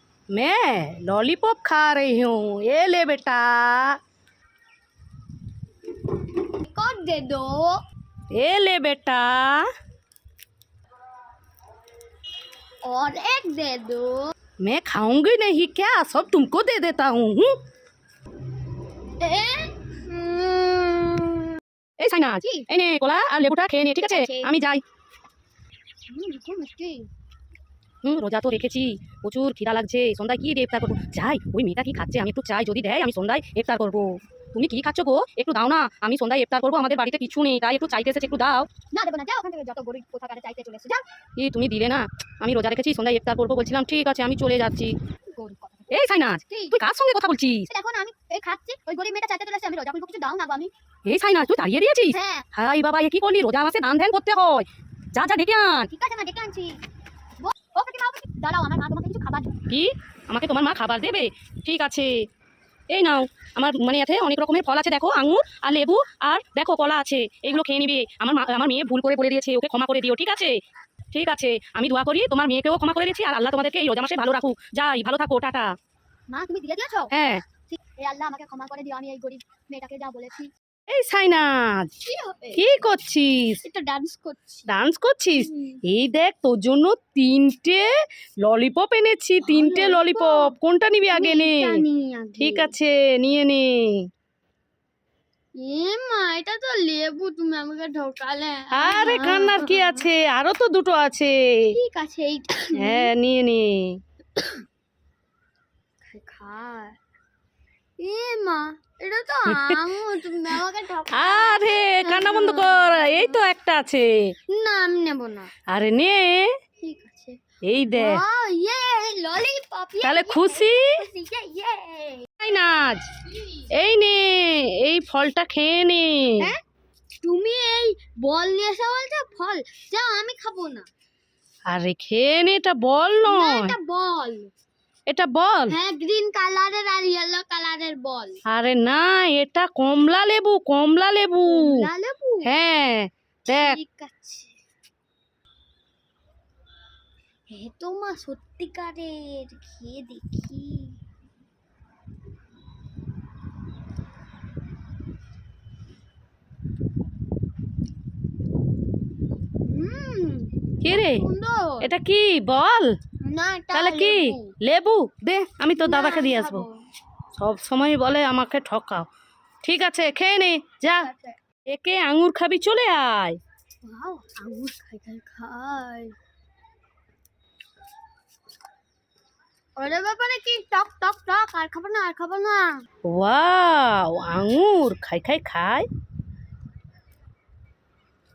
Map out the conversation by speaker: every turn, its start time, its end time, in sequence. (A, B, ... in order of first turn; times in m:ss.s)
0:00.3-0:04.0 A
0:06.4-0:07.8 B
0:08.3-0:09.6 A
0:12.8-0:14.3 B
0:14.6-0:17.5 A
0:19.2-0:21.6 B
0:22.0-0:24.8 A
0:22.4-0:22.7 B
0:24.1-0:24.5 B
0:26.1-0:27.1 B
0:28.0-0:38.7 A
0:38.9-0:41.0 B
0:41.4-0:45.0 A
0:45.3-0:46.8 B
0:45.9-0:47.7 A
0:47.7-0:50.7 B
0:51.0-0:55.9 A
0:52.1-0:52.4 B
0:55.9-0:56.8 B
0:57.4-0:59.5 B
0:59.7-1:02.2 A
1:02.9-1:10.6 A
1:11.1-1:15.7 A
1:16.3-1:17.1 B
1:17.1-1:17.4 A
1:17.7-1:20.5 B
1:20.9-1:21.9 A
1:22.0-1:22.6 B
1:22.5-1:23.6 A
1:23.6-1:24.7 B
1:24.7-1:27.9 A
1:25.4-1:25.8 B
1:28.4-1:31.8 A
1:29.4-1:30.5 B
1:31.1-1:32.7 B
1:32.4-1:34.1 A
1:35.6-1:40.1 B
1:38.7-1:41.7 A
1:41.7-1:43.1 B
1:42.7-1:44.0 A
1:44.4-1:44.6 B
1:46.0-1:47.0 B
1:48.0-1:53.4 B
1:49.5-1:49.8 A
1:51.1-1:54.3 A
1:54.5-1:55.5 B
1:55.7-1:56.5 A
1:56.8-1:57.4 B
1:57.6-1:58.2 A
1:57.9-2:02.3 B
2:00.0-2:00.9 A
2:02.4-2:03.1 A
2:03.7-2:06.5 A
2:07.2-2:10.9 B
2:11.7-2:13.7 A
2:13.2-2:14.5 B
2:15.1-2:15.7 A
2:15.7-2:18.4 B
2:18.5-2:21.9 A
2:21.4-2:22.5 B
2:22.4-2:23.8 A
2:23.5-2:24.5 B
2:27.5-2:31.0 B
2:39.6-2:41.9 B
2:40.8-2:41.2 A
2:41.8-2:42.9 A
2:43.2-2:44.5 B
2:43.7-2:46.7 A
2:45.8-2:46.8 B
2:47.4-2:49.0 A
2:49.6-2:51.1 A
2:50.9-2:51.4 B
2:51.7-2:53.4 A
2:53.8-2:56.2 B
2:59.8-3:02.8 B
3:03.0-3:05.9 A